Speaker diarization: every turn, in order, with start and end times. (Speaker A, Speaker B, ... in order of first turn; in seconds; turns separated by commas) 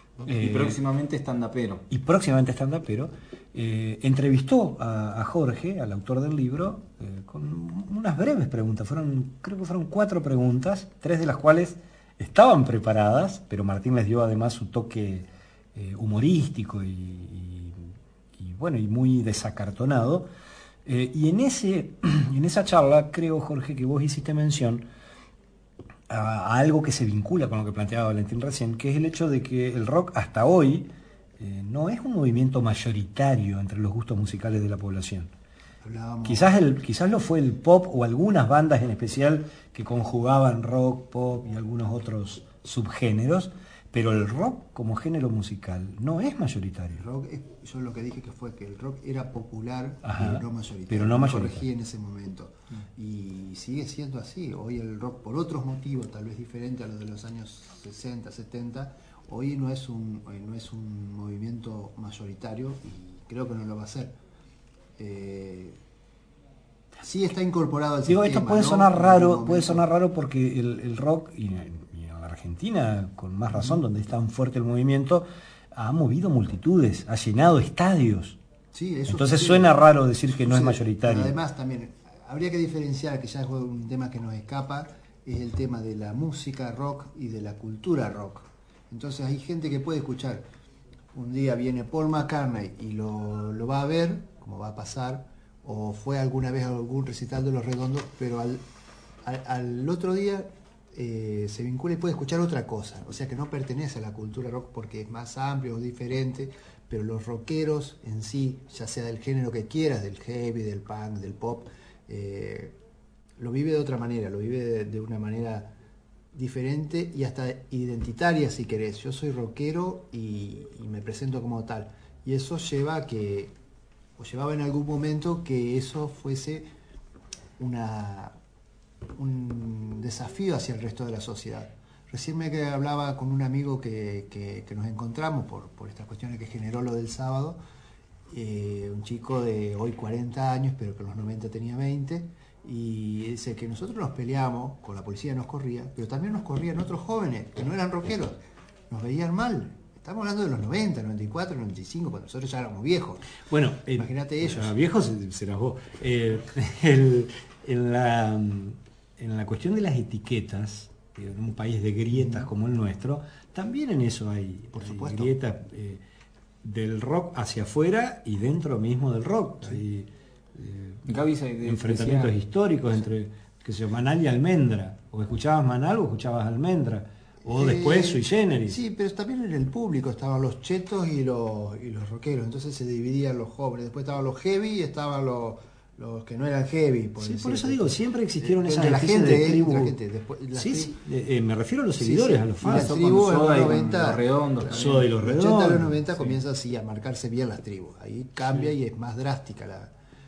Speaker A: 0.2-1.8, Speaker B: 0.2-0.8, Speaker B: 1.9-20.3, Speaker B: 20.8-24.9, Speaker B: 26.1-35.3, Speaker C: 35.8-36.5, Speaker B: 36.2-47.0, Speaker C: 47.0-64.2, Speaker B: 50.0-51.7, Speaker C: 65.0-65.8, Speaker C: 67.0-69.8, Speaker B: 68.0-78.4, Speaker C: 73.5-73.8, Speaker C: 78.7-79.8, Speaker B: 79.1-81.3, Speaker C: 80.4-90.4, Speaker C: 91.1-98.6, Speaker C: 99.2-112.8, Speaker C: 113.4-115.7, Speaker C: 116.3-123.5, Speaker C: 124.2-126.7, Speaker C: 127.6-128.3, Speaker C: 129.1-137.6, Speaker C: 138.3-148.4, Speaker C: 148.9-153.4, Speaker B: 153.4-166.0, Speaker C: 153.9-154.7, Speaker C: 162.1-162.5, Speaker C: 164.7-165.3, Speaker B: 166.6-171.1, Speaker A: 171.1-172.3, Speaker B: 171.6-178.8, Speaker C: 177.4-190.9, Speaker B: 187.2-189.9, Speaker B: 190.5-192.9, Speaker C: 192.0-199.9, Speaker A: 192.6-195.1, Speaker B: 194.7-195.9